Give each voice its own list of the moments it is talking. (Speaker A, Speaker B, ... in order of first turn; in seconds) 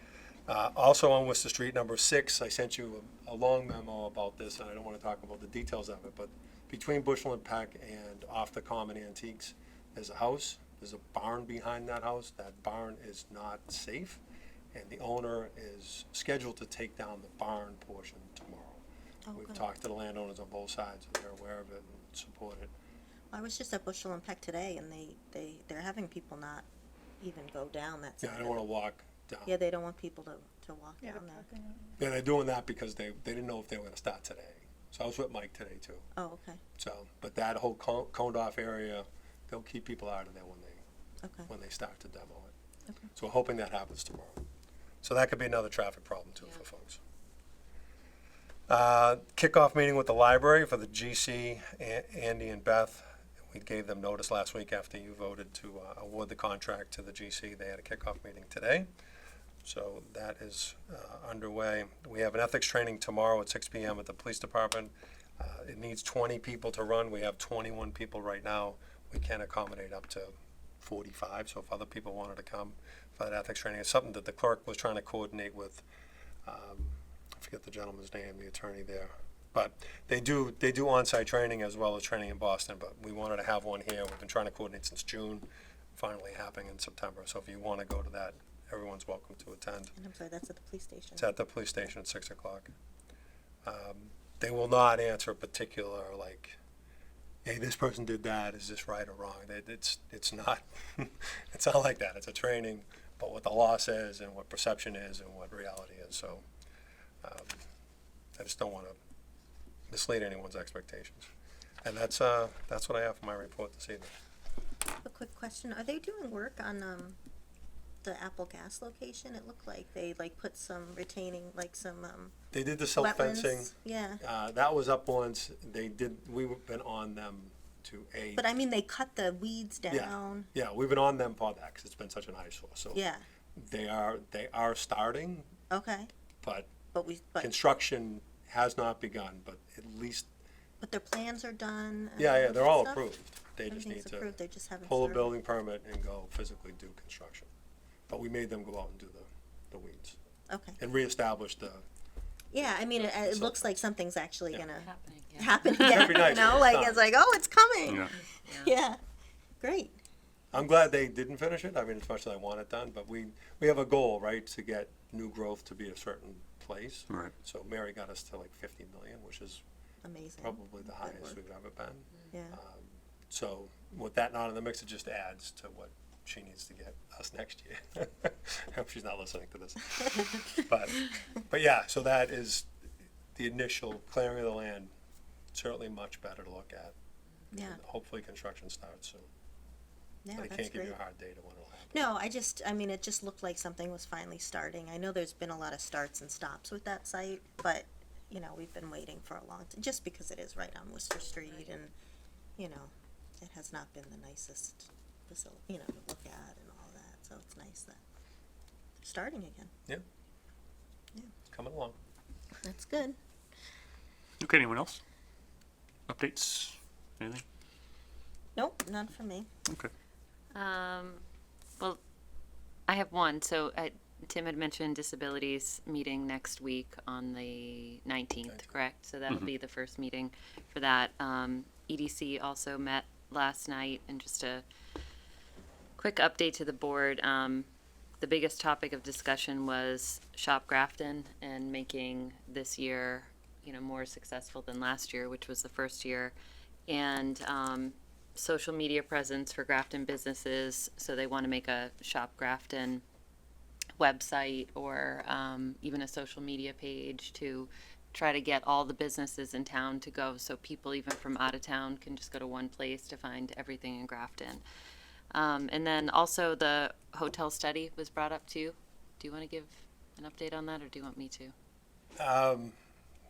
Speaker A: 0.5-14.2, 14.7-18.8, 19.3-22.7, 28.2-29.5, 32.0-36.1, 36.8-40.8, 41.5-42.5, 43.1-44.4, 45.0-47.0, 48.7-58.9, 59.6-75.8, 76.4-89.9, 91.2-92.7, 93.6-96.6, 97.4-106.4, 107.2-107.6, 108.4-109.0, 109.9-111.3, 111.8-114.1, 122.5-128.4, 129.9-133.0, 133.6-135.5, 136.4-136.7, 137.4-140.3, 142.2-147.5, 148.1-150.2, 150.8-151.8, 153.0-153.8, 155.7-157.0, 160.5-169.6, 170.4-182.7, 183.3-184.9, 185.5-186.9, 187.5-189.3, 190.3-192.1, 211.5-211.9, 272.2-272.7
Speaker B: 19.3-19.6, 23.3-26.7, 27.2-28.6, 29.4-31.5, 36.1-36.6, 41.2-41.5, 90.0-91.4, 115.0-117.2, 118.0-122.3, 123.0-124.2, 128.3-130.5, 132.9-133.2, 135.7-136.1, 136.9-137.5, 140.8-143.0, 143.7-145.3, 150.5-150.8, 152.5-159.0, 159.6-160.0, 170.0-171.4, 172.3-172.6, 187.5-187.8, 190.2-190.9, 191.9-201.9, 202.6-208.0, 209.0-209.7, 212.6-213.2, 218.6-219.5
Speaker C: 154.8-156.2, 158.4-158.7, 220.5-221.2, 222.9-234.6, 236.0-237.7, 238.2-246.3, 246.9-253.0, 254.0-264.6, 265.3-271.5
Speaker D: 214.4-215.0, 216.1-217.4, 219.7-219.9